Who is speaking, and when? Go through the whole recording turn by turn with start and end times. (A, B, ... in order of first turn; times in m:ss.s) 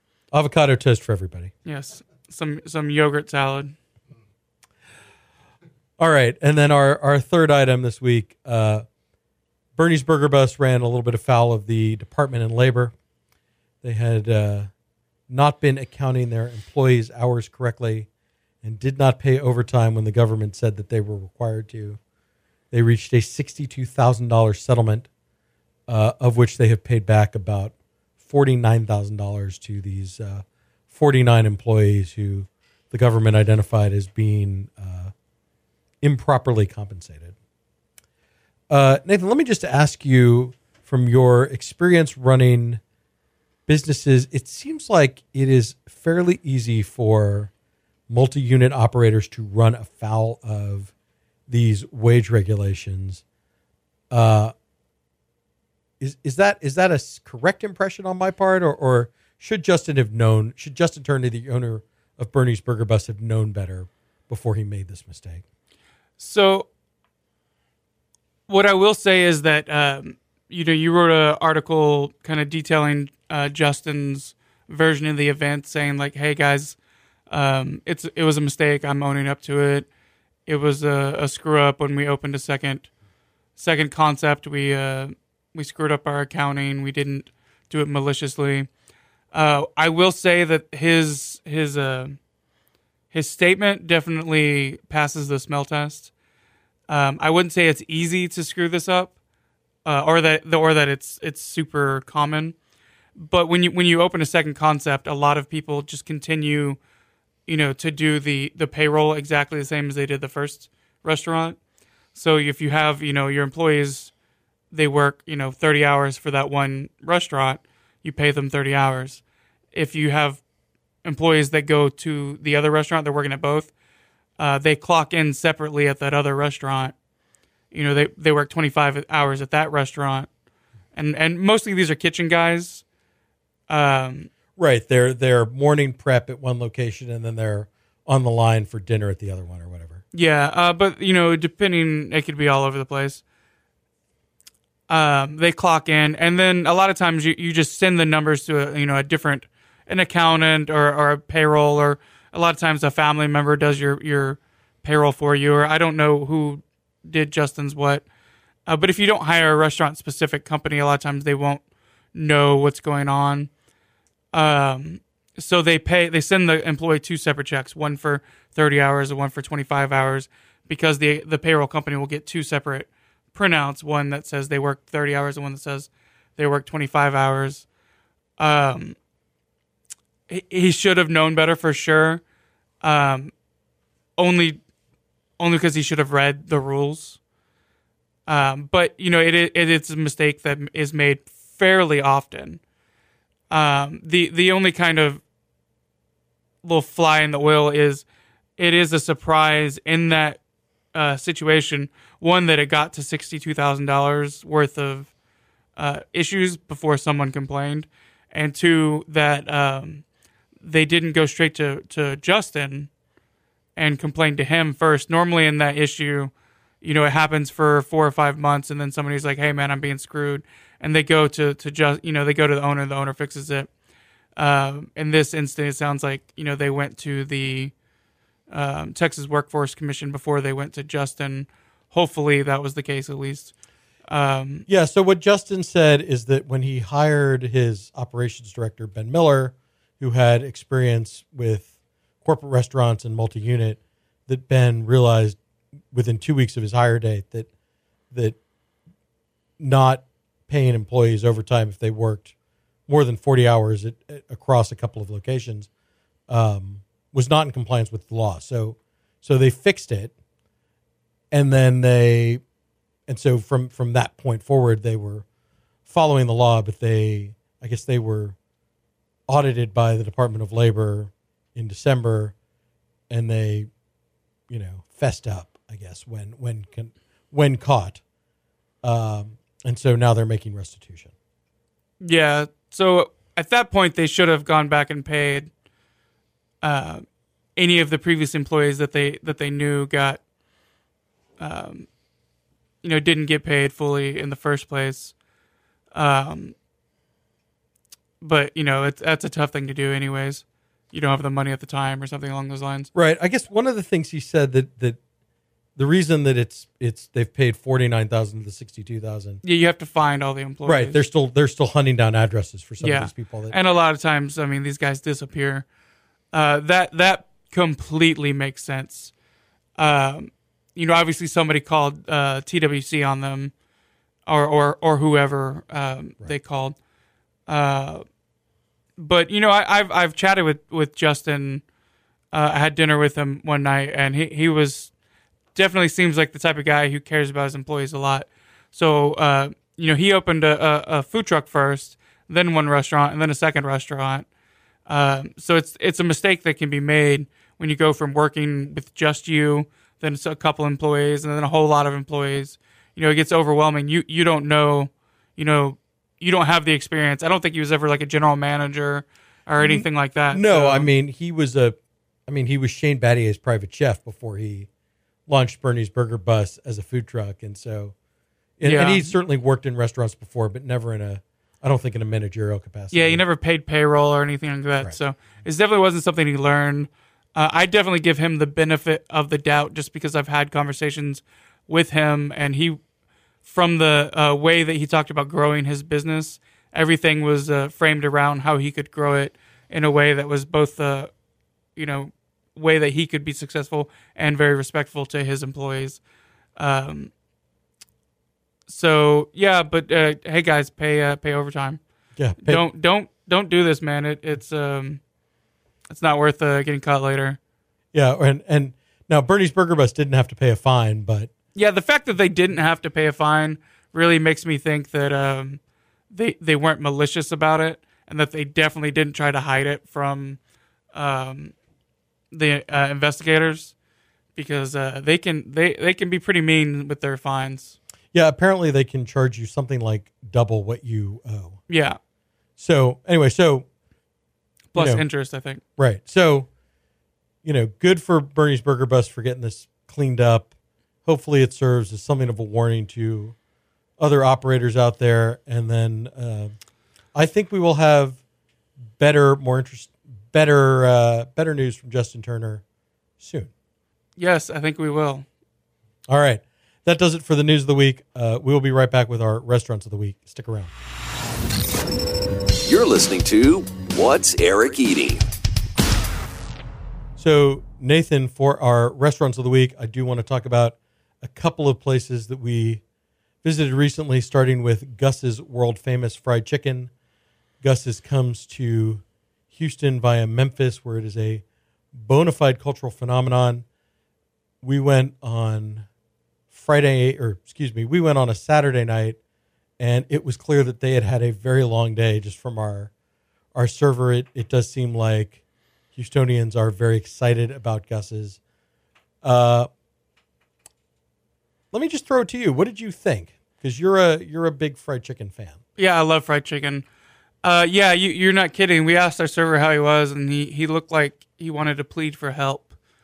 0:00.3-0:01.5 A
0:01.6-0:03.8 B
0:06.0-0:08.8 A
0:09.8-0:12.9 A
0:13.8-0:14.7 A
0:15.3-0:18.1 A
0:18.6-0:22.0 A
0:22.7-0:25.1 A
0:25.9-0:35.1 A
0:36.0-0:37.3 A
0:38.7-0:42.8 A
0:43.7-0:47.5 A
0:48.1-0:50.9 A
0:51.5-0:53.2 A
0:54.1-0:54.5 A
0:56.0-1:05.4 A
1:06.2-1:06.7 B
1:08.5-1:16.8 B
1:17.3-1:19.9 B
1:20.4-1:22.9 B
1:23.6-1:28.7 B
1:29.3-1:32.2 B
1:33.1-1:36.1 B
1:36.9-1:39.1 B
1:39.8-1:42.6 B
1:43.2-1:46.8 B
1:47.5-1:51.6 B
1:52.1-1:54.1 B
1:54.7-1:59.2 B
1:59.7-2:00.4 B
2:01.0-2:03.7 B
2:04.4-2:06.9 B
2:07.7-2:10.3 B
2:10.9-2:12.8 B
2:13.7-2:14.3 B
2:14.6-2:20.0 A
2:20.1-2:23.2 B
2:24.9-2:38.0 B
2:38.6-2:41.6 B
2:42.1-2:43.5 B
2:44.3-2:57.6 B
2:58.4-2:59.0 B
3:00.3-3:02.2 B
3:02.8-3:03.3 B
3:04.2-3:04.6 B
3:05.4-3:07.2 B
3:08.3-3:12.6 B
3:13.5-3:15.2 B
3:16.6-3:18.0 B
3:18.6-3:20.4 B
3:20.9-3:25.1 B
3:25.8-3:30.0 B
3:30.6-3:32.9 B
3:33.8-3:43.7 B
3:44.4-3:47.7 B
3:48.5-3:53.5 B
3:54.1-3:54.6 B
3:54.7-4:01.7 A
4:02.2-4:05.4 A
4:05.9-4:07.5 A
4:08.1-4:08.4 A
4:09.6-4:12.3 A
4:12.9-4:15.7 A
4:16.3-4:20.1 A
4:21.3-4:22.4 A
4:23.1-4:25.2 A
4:25.9-4:28.4 A
4:29.3-4:32.3 A
4:33.1-4:33.7 A
4:34.5-4:38.0 A
4:38.8-4:41.1 A
4:42.0-4:45.5 B
4:46.6-4:47.0 B
4:47.6-4:50.2 B
4:51.4-4:51.9 B
4:52.8-4:55.1 B
4:55.9-4:56.5 B
4:58.2-5:02.9 B
5:02.9-5:05.0 A
5:05.8-5:09.4 A
5:09.4-5:11.0 B
5:10.6-5:13.6 A
5:12.8-5:15.6 B
5:16.3-5:19.1 B
5:19.8-5:23.5 B
5:24.2-5:26.8 B
5:27.5-5:28.0 B
5:29.0-5:31.6 B
5:32.3-5:34.9 B
5:35.5-5:44.3 B
5:44.9-6:00.9 B
5:59.6-6:04.7 A
6:05.3-6:07.9 A
6:08.6-6:13.2 A
6:08.6-6:09.1 B
6:12.9-6:22.8 B
6:23.4-6:31.1 B
6:31.8-6:36.0 B
6:36.6-6:37.1 B
6:38.7-6:41.8 B
6:42.2-6:42.6 A
6:42.4-6:45.0 B
6:45.9-6:47.4 B
6:47.9-6:51.3 A
6:51.5-6:55.6 B
6:56.1-7:00.4 B
7:00.9-7:01.5 B
7:02.3-7:03.7 B
7:04.3-7:07.8 B
7:08.1-7:11.6 A
7:11.7-7:12.0 B
7:12.6-7:13.6 A
7:14.7-7:15.6 B
7:14.7-7:15.1 A
7:15.8-7:16.5 A
7:17.4-7:20.5 A
7:21.0-7:23.3 A
7:24.0-7:26.5 A
7:27.1-7:28.2 A
7:29.0-7:32.6 A
7:33.2-7:33.5 A
7:34.2-7:35.2 B
7:36.1-7:40.7 A
7:42.6-7:45.2 C
7:47.2-7:52.8 A
7:53.4-7:56.9 A
7:57.6-8:03.6 A
8:04.6-8:05.9 A
8:06.5-8:09.2 A
8:09.8-8:12.9 A
8:13.5-8:15.4 A
8:15.9-8:18.4 A
8:19.2-8:19.7 A
8:21.7-8:25.6 A
8:25.8-8:26.8 B
8:27.4-8:32.7 B